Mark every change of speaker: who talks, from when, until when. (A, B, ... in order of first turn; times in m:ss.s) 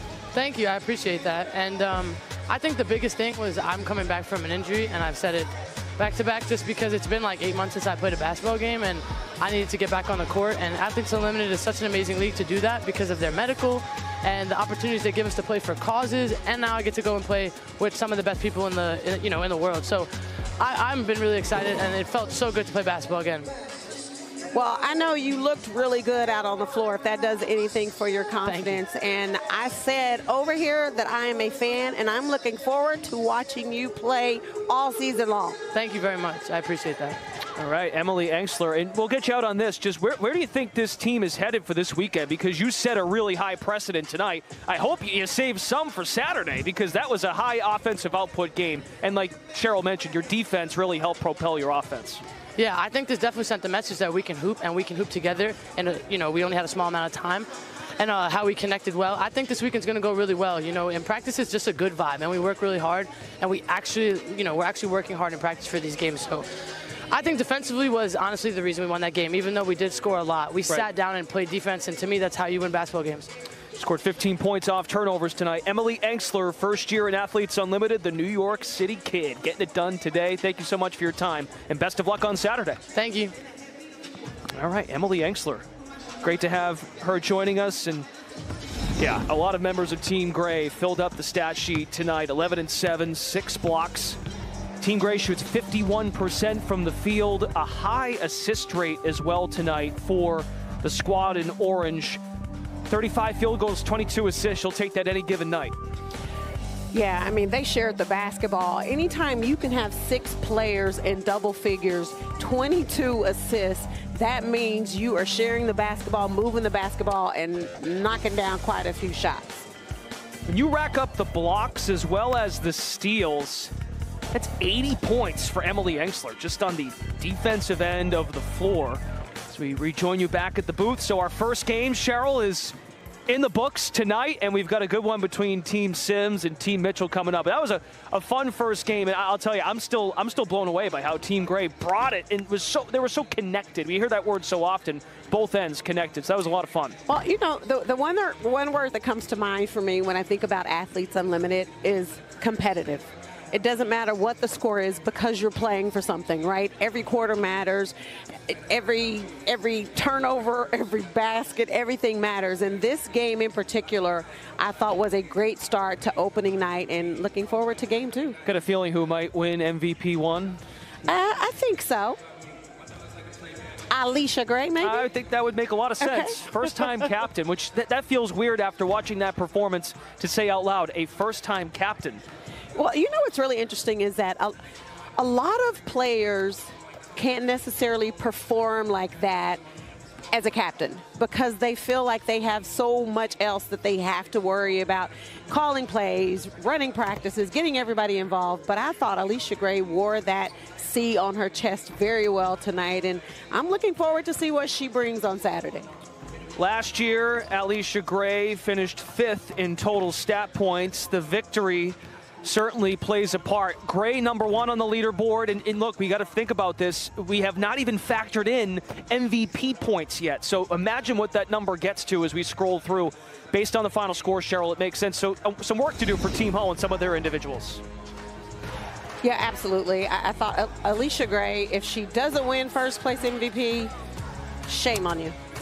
0:00.3-0:23.5 A
0:24.5-0:35.6 B
0:28.4-0:28.8 A
0:35.7-0:37.2 A
0:37.6-0:52.2 C
0:52.6-1:06.5 A
1:07.1-1:13.3 A
1:13.7-1:22.8 C
1:22.9-1:23.3 A
1:24.5-1:25.7 C
1:26.2-1:28.1 C
1:29.0-1:34.2 C
1:34.8-1:42.2 C
1:42.9-1:45.8 C
1:46.9-1:59.7 B
2:00.4-2:03.7 C
2:04.3-2:12.7 C
2:13.3-2:27.0 C
2:27.1-2:48.4 B
2:48.4-2:50.6 C
2:51.0-2:52.2 B
2:53.9-2:55.1 B
2:54.8-3:02.2 C
2:56.0-2:56.7 B
3:02.7-3:04.6 B
3:05.2-3:09.6 B
3:10.3-3:25.9 B
3:26.6-3:47.8 C
3:49.2-3:53.9 B
3:54.6-3:55.4 B